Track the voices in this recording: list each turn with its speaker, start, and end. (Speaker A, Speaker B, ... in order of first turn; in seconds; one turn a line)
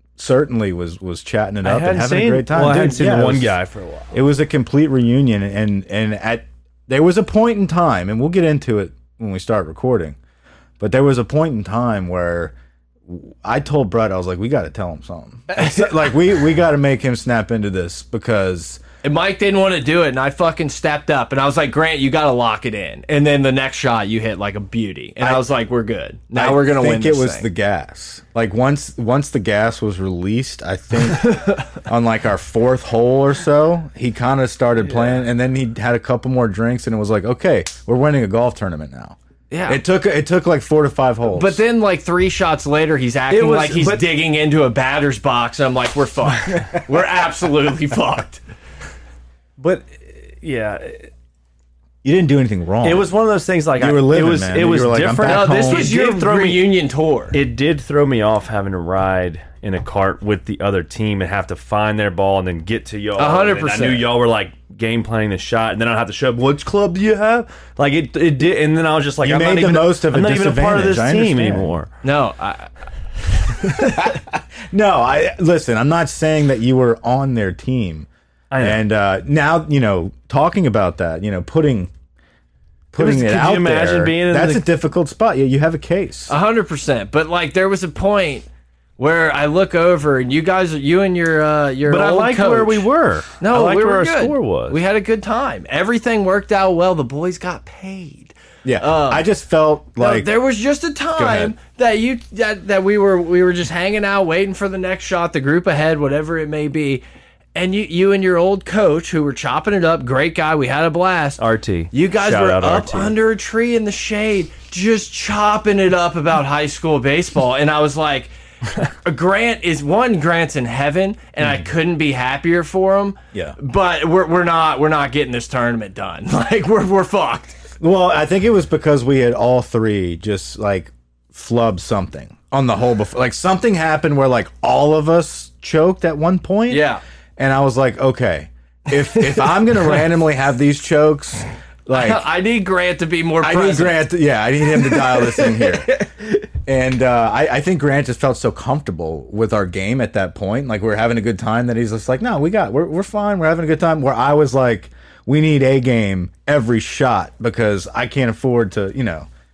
Speaker A: 0.2-3.5
Speaker B: 1.6-4.1
Speaker A: 4.1-10.2
Speaker A: 10.8-12.5
Speaker A: 13.1-18.8
Speaker C: 15.5-16.2
Speaker C: 19.0-27.5
Speaker A: 26.3-41.6
Speaker C: 31.0-31.7
Speaker C: 39.5-39.8
Speaker C: 41.3-48.4
Speaker B: 43.3-44.0
Speaker B: 49.6-51.1
Speaker A: 52.0-53.1
Speaker B: 52.8-56.7
Speaker A: 53.8-55.9
Speaker C: 55.2-57.4
Speaker B: 57.3-71.9
Speaker C: 63.2-64.1
Speaker A: 69.2-71.7
Speaker C: 72.0-72.7
Speaker A: 73.8-78.1
Speaker B: 78.5-78.8
Speaker A: 78.6-81.9
Speaker A: 82.9-86.3
Speaker B: 83.0-84.7
Speaker C: 86.3-88.5
Speaker C: 89.0-92.8
Speaker B: 91.8-94.8
Speaker C: 93.4-99.3
Speaker A: 98.6-100.3
Speaker C: 100.0-107.0
Speaker A: 101.2-101.5
Speaker C: 107.5-111.4
Speaker B: 111.4-113.2
Speaker C: 111.9-127.6
Speaker A: 127.8-136.8
Speaker C: 136.7-137.0
Speaker A: 137.4-142.2
Speaker C: 139.2-139.5
Speaker C: 141.9-144.1
Speaker A: 143.4-159.3
Speaker C: 144.7-146.1